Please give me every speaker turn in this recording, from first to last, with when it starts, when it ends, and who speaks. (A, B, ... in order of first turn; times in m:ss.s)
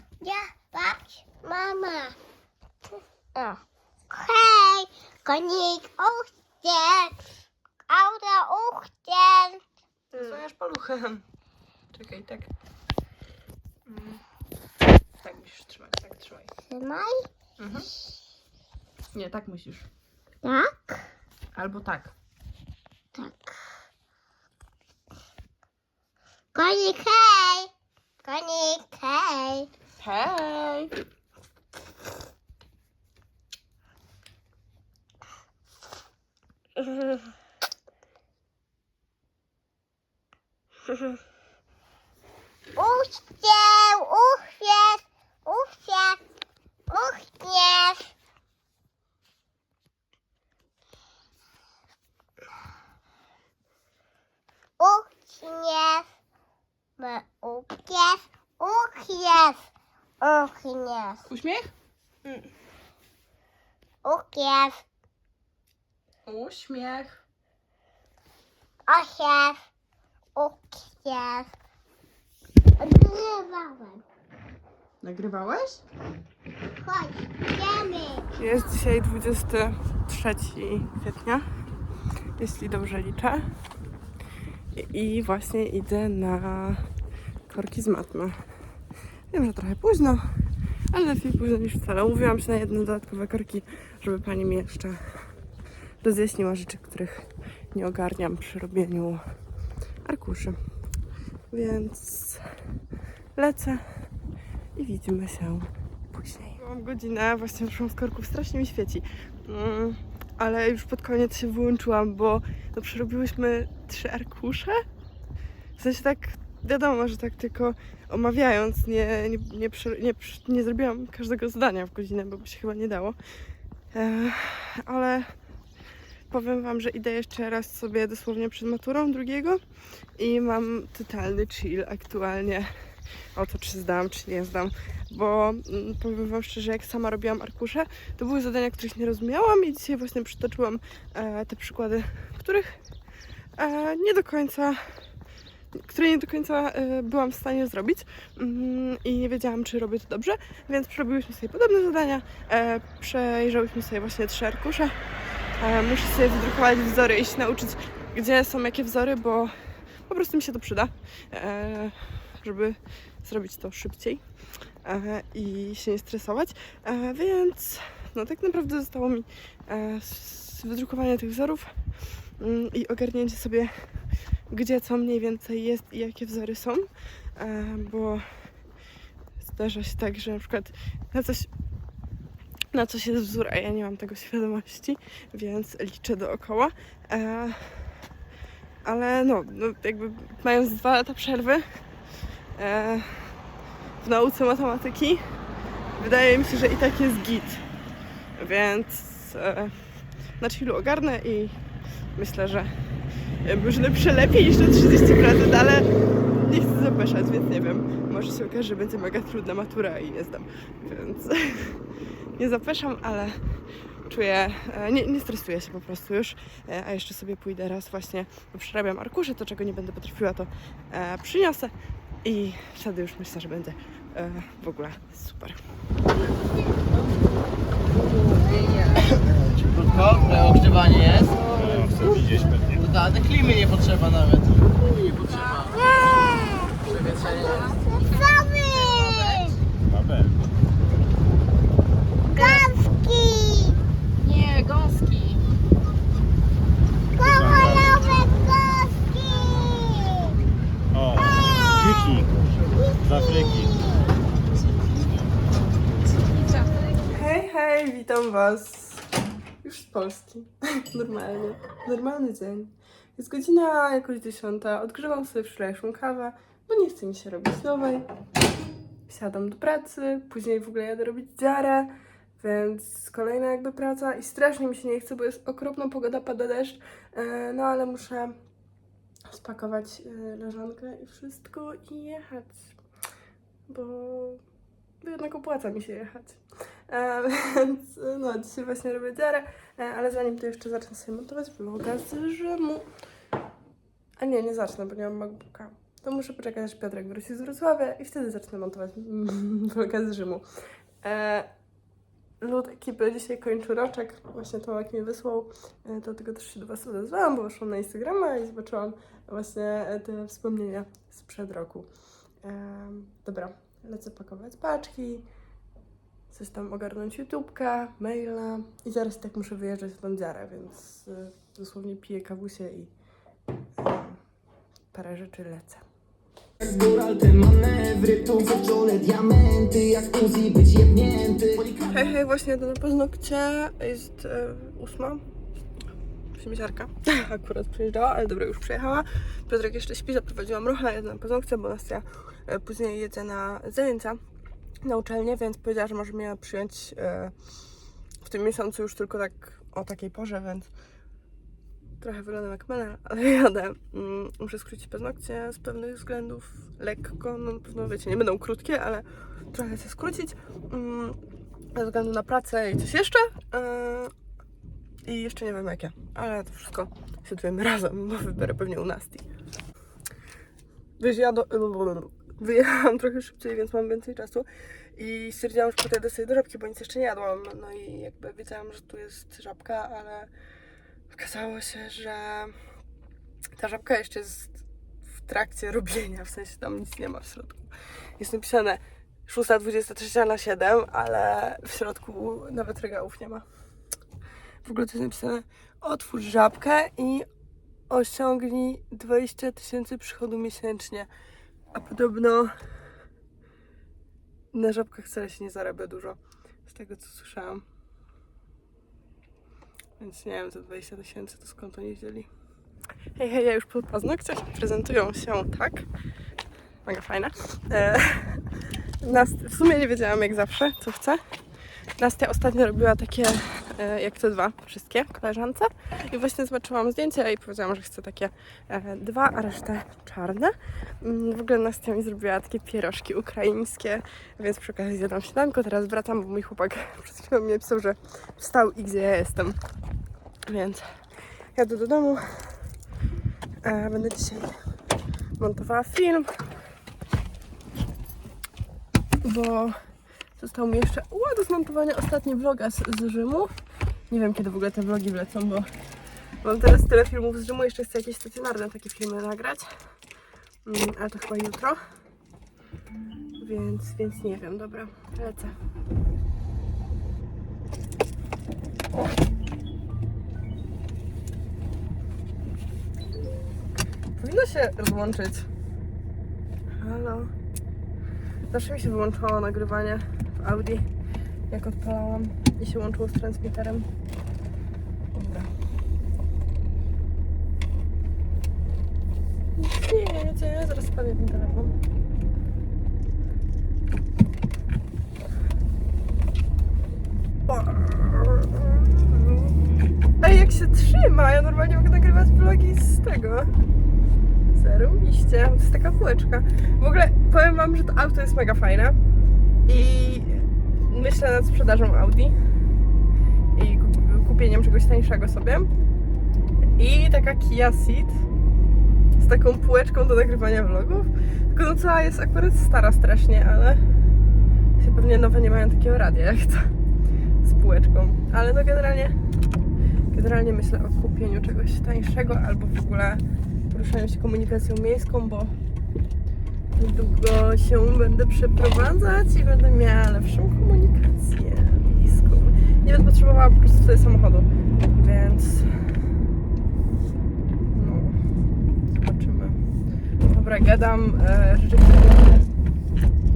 0:00.2-0:02.2 A
0:03.3-0:07.2 A
0:07.9-0:09.6 A
0:10.1-0:11.2 B
0:11.9-0:12.5 B
0:13.9-0:14.2 B
0:15.2-0:16.5 B
0:16.7-0:17.3 A
0:17.6-0:17.9 B
0:19.1-0:19.8 B
0:20.4-0:21.1 A
0:21.5-0:22.1 B
0:23.1-0:23.6 A
0:26.5-0:27.7 A
0:28.2-0:29.7 A
0:30.0-0:30.9 B
0:42.8-0:46.2 A
0:46.9-0:48.1 A
0:54.8-0:56.1 A
0:57.0-0:59.6 A
1:00.2-1:01.2 A
1:01.3-1:01.7 B
1:04.0-1:04.8 A
1:06.3-1:07.1 B
1:08.9-1:09.6 A
1:10.4-1:11.5 A
1:12.8-1:14.0 A
1:15.0-1:15.8 B
1:16.8-1:18.3 A
1:18.4-1:21.4 B
1:22.4-1:23.5 B
1:24.7-1:26.8 B
1:27.5-1:28.4 B
1:29.3-1:30.2 B
1:30.9-1:35.0 B
1:36.0-1:39.2 B
1:40.0-1:40.6 B
1:41.5-1:42.4 B
1:43.4-1:43.8 B
1:44.8-1:54.8 B
1:55.8-2:03.2 B
2:03.9-2:05.3 B
2:06.3-2:09.6 B
2:10.2-2:12.7 B
2:13.3-2:22.7 B
2:23.6-2:24.8 B
2:25.7-2:34.9 B
2:35.6-2:39.5 B
2:40.1-2:44.2 B
2:44.8-2:51.7 B
2:52.4-2:53.7 B
2:54.5-2:58.2 B
2:59.4-3:01.5 B
3:02.7-3:07.9 B
3:08.8-3:11.6 B
3:12.5-3:13.3 B
3:14.0-3:15.2 B
3:16.0-3:17.6 B
3:18.4-3:19.8 B
3:20.4-3:21.6 B
3:22.2-3:22.7 B
3:23.4-3:25.9 B
3:26.4-3:31.8 B
3:32.4-3:41.7 B
3:42.2-3:45.6 B
3:49.5-3:51.3 C
3:51.5-3:52.9 D
3:52.8-3:55.7 C
3:55.7-3:59.6 A
3:59.9-4:00.4 D
4:02.3-4:03.8 A
4:04.2-4:05.4 B
4:07.2-4:10.4 A
4:07.2-4:08.0 D
4:10.9-4:12.3 D
4:11.2-4:11.7 A
4:12.9-4:14.1 A
4:13.0-4:13.8 D
4:17.0-4:19.0 B
4:19.6-4:28.1 B
4:29.1-4:38.3 B
4:39.3-4:42.7 B
4:43.7-4:44.4 B
4:45.0-4:52.9 B
4:54.2-5:00.4 B
5:01.0-5:01.5 B
5:02.4-5:11.9 B
5:12.4-5:15.3 B
5:16.3-5:22.9 B
5:23.8-5:24.2 B
5:24.9-5:25.8 B
5:26.6-5:31.8 E
5:31.8-5:35.2 B
5:36.3-5:44.2 B
5:44.8-5:47.3 B
5:48.2-5:50.7 B
5:52.0-6:01.2 B
6:01.7-6:04.1 B
6:05.0-6:09.3 B
6:11.0-6:20.3 B
6:21.1-6:22.5 B
6:23.5-6:24.6 B
6:25.1-6:33.4 B
6:34.6-6:37.3 B
6:37.9-6:41.1 B
6:41.7-6:42.5 B
6:44.5-6:47.6 B
6:50.0-6:52.3 B
6:53.2-6:55.9 B
6:56.8-7:01.2 B
7:02.0-7:19.6 B
7:20.4-7:20.9 B
7:21.5-7:22.6 B
7:23.6-7:24.5 B
7:25.4-7:26.3 B
7:29.2-7:29.8 B
7:30.4-7:33.5 B
7:34.1-7:35.7 B
7:36.4-7:39.7 B
7:40.6-7:41.8 B
7:43.4-7:45.5 B
7:54.1-7:55.5 B
7:56.8-7:57.3 B
7:58.5-8:00.9 B
8:01.5-8:03.9 B
8:05.1-8:05.5 B
8:09.6-8:11.7 B
8:17.5-8:19.6 B
8:20.2-8:23.5 B
8:24.5-8:29.0 B
8:29.6-8:32.3 B
8:33.5-8:35.7 B
8:36.8-8:38.2 B
8:39.2-8:43.8 B
8:44.8-8:46.7 B
8:47.4-8:49.2 B
8:50.1-8:55.5 B
8:56.7-9:05.9 B
9:07.7-9:08.2 B
9:08.9-9:09.6 B
9:10.2-9:12.5 B